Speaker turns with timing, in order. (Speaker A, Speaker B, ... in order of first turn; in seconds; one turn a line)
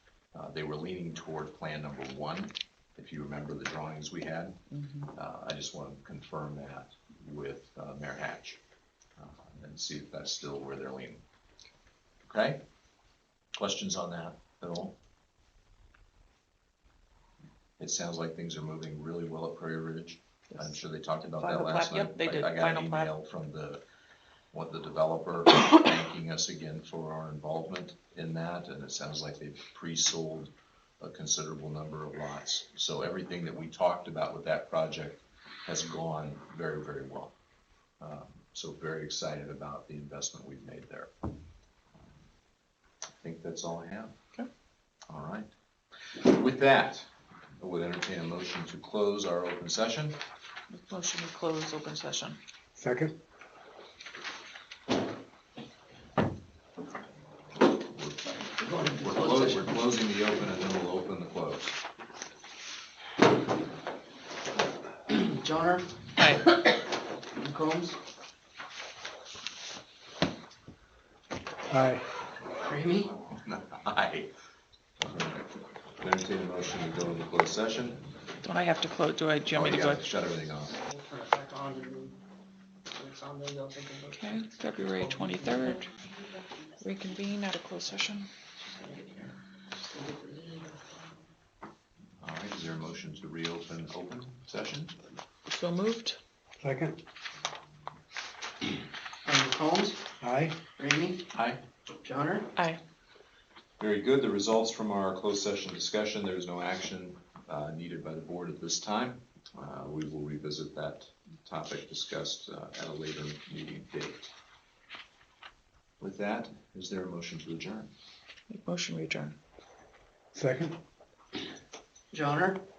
Speaker A: 0.3-4.6
Speaker A: 5.1-8.6
Speaker A: 9.2-11.2
Speaker A: 12.2-12.6
Speaker A: 13.6-15.0
Speaker A: 17.8-23.8
Speaker B: 21.3-23.1
Speaker A: 24.5-37.3
Speaker A: 38.0-41.1
Speaker A: 43.2-44.1
Speaker A: 45.1-45.5
Speaker A: 46.0-50.2
Speaker B: 50.7-52.4
Speaker C: 52.8-53.1
Speaker A: 57.7-61.8
Speaker D: 58.6-59.6
Speaker D: 65.1-66.8
Speaker B: 66.2-66.4
Speaker D: 67.4-68.0
Speaker C: 71.7-72.0
Speaker D: 72.6-73.1
Speaker A: 73.0-74.3
Speaker A: 75.0-75.5
Speaker A: 76.0-78.0
Speaker B: 78.4-80.0
Speaker A: 79.5-80.8
Speaker D: 80.8-82.2
Speaker D: 82.9-86.2
Speaker B: 84.1-85.9
Speaker B: 86.8-88.3
Speaker D: 88.6-91.1
Speaker A: 92.2-95.0
Speaker B: 95.5-96.2
Speaker C: 96.6-97.0
Speaker D: 99.2-100.0
Speaker C: 100.2-100.6
Speaker D: 100.8-101.3
Speaker A: 101.3-101.6
Speaker D: 102.0-102.5
Speaker A: 103.8-114.3
Speaker A: 116.0-117.9
Speaker B: 118.5-119.4
Speaker C: 120.3-120.8
Speaker D: 122.1-122.6